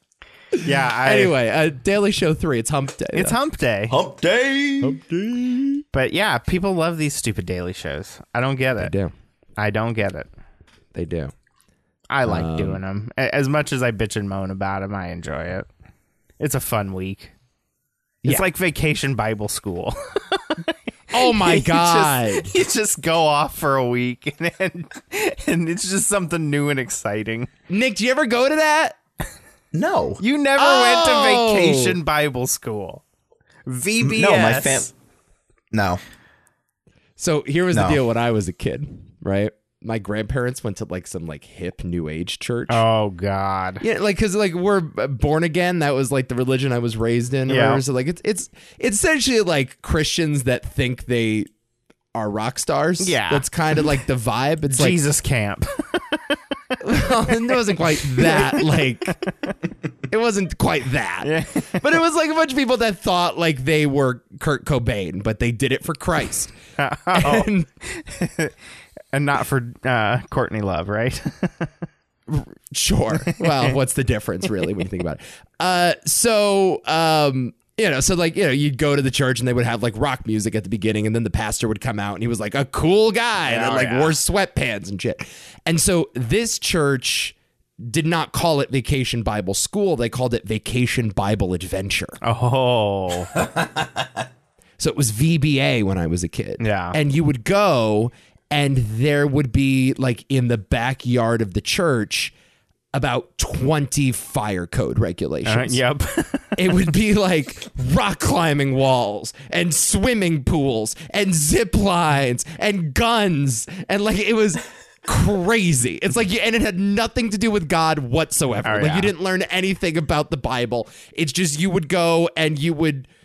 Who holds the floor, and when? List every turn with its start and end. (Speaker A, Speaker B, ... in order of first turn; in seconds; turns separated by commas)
Speaker A: 0.6-3.4, Speaker B: 0.6-1.4, Speaker B: 3.1-3.9, Speaker C: 3.9-5.0, Speaker A: 4.8-5.8, Speaker B: 5.9-8.9, Speaker A: 8.8-9.1, Speaker B: 9.6-10.3, Speaker A: 10.9-11.3, Speaker B: 12.1-15.7, Speaker A: 12.2-12.8, Speaker B: 16.4-17.3, Speaker B: 18.2-27.5, Speaker A: 21.1-22.5, Speaker A: 27.7-29.0, Speaker C: 29.7-30.2, Speaker B: 30.2-33.0, Speaker A: 30.6-32.0, Speaker B: 33.6-34.9, Speaker C: 34.0-34.9, Speaker C: 35.7-36.0, Speaker A: 37.2-42.9, Speaker C: 37.7-38.0, Speaker B: 42.7-43.8, Speaker A: 43.8-51.5, Speaker B: 47.5-47.8, Speaker A: 52.1-55.0, Speaker B: 53.0-53.5, Speaker B: 54.8-56.4, Speaker A: 56.8-59.2, Speaker B: 58.0-59.5, Speaker A: 60.1-66.5, Speaker B: 61.2-61.8, Speaker B: 66.8-68.5, Speaker A: 67.1-67.7, Speaker B: 69.1-71.7, Speaker A: 72.3-92.2, Speaker B: 73.3-73.8, Speaker B: 83.5-84.2, Speaker B: 92.2-93.3, Speaker A: 94.8-102.3, Speaker B: 96.6-97.0, Speaker A: 102.9-105.8, Speaker B: 105.4-106.8, Speaker A: 106.6-123.1, Speaker B: 118.6-119.1